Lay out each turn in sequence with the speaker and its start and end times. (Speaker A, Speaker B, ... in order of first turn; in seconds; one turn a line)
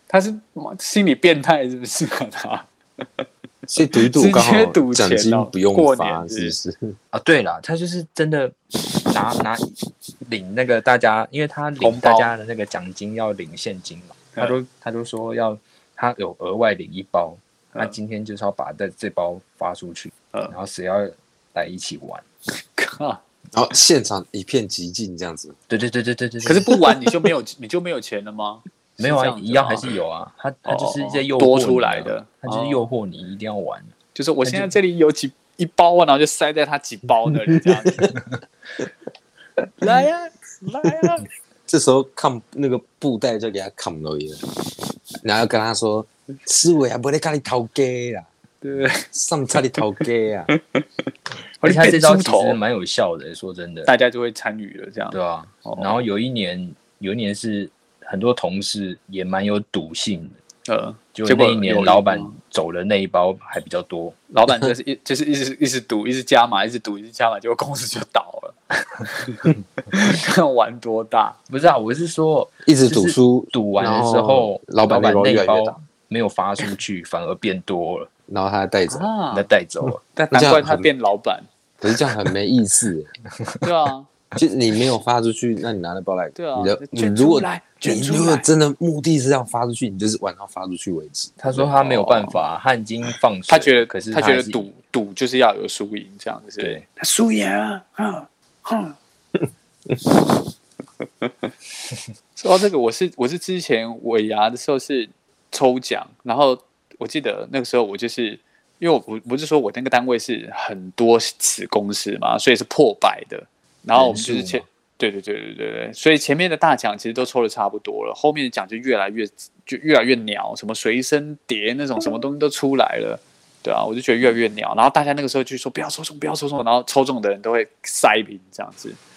Speaker A: 0.1-2.7
Speaker B: 3.7-7.0
Speaker A: 4.0-6.5
Speaker C: 7.1-9.7
Speaker C: 10.2-22.2
Speaker A: 11.8-12.3
Speaker A: 22.6-23.2
Speaker B: 23.5-25.6
Speaker C: 25.7-27.0
Speaker A: 26.4-29.9
Speaker C: 29.0-33.9
Speaker A: 30.6-32.8
Speaker A: 34.1-38.1
Speaker C: 34.5-34.7
Speaker B: 37.5-38.1
Speaker A: 39.8-41.3
Speaker B: 41.7-44.5
Speaker B: 45.2-48.3
Speaker A: 48.6-49.0
Speaker B: 49.1-50.5
Speaker A: 51.6-52.6
Speaker C: 51.6-53.9
Speaker A: 53.9-56.0
Speaker C: 55.1-60.4
Speaker A: 60.7-62.4
Speaker C: 61.1-64.2
Speaker A: 64.3-68.6
Speaker A: 69.1-71.4
Speaker C: 71.5-78.1
Speaker B: 72.7-75.8
Speaker B: 78.3-79.1
Speaker A: 78.9-79.5
Speaker C: 79.3-80.0
Speaker A: 80.2-81.5
Speaker B: 80.3-80.9
Speaker B: 81.8-83.1
Speaker A: 83.6-84.1
Speaker B: 84.4-92.2
Speaker A: 86.4-88.5
Speaker C: 91.4-94.7
Speaker A: 93.5-99.0
Speaker C: 96.6-96.8
Speaker A: 102.4-129.0
Speaker B: 114.0-114.6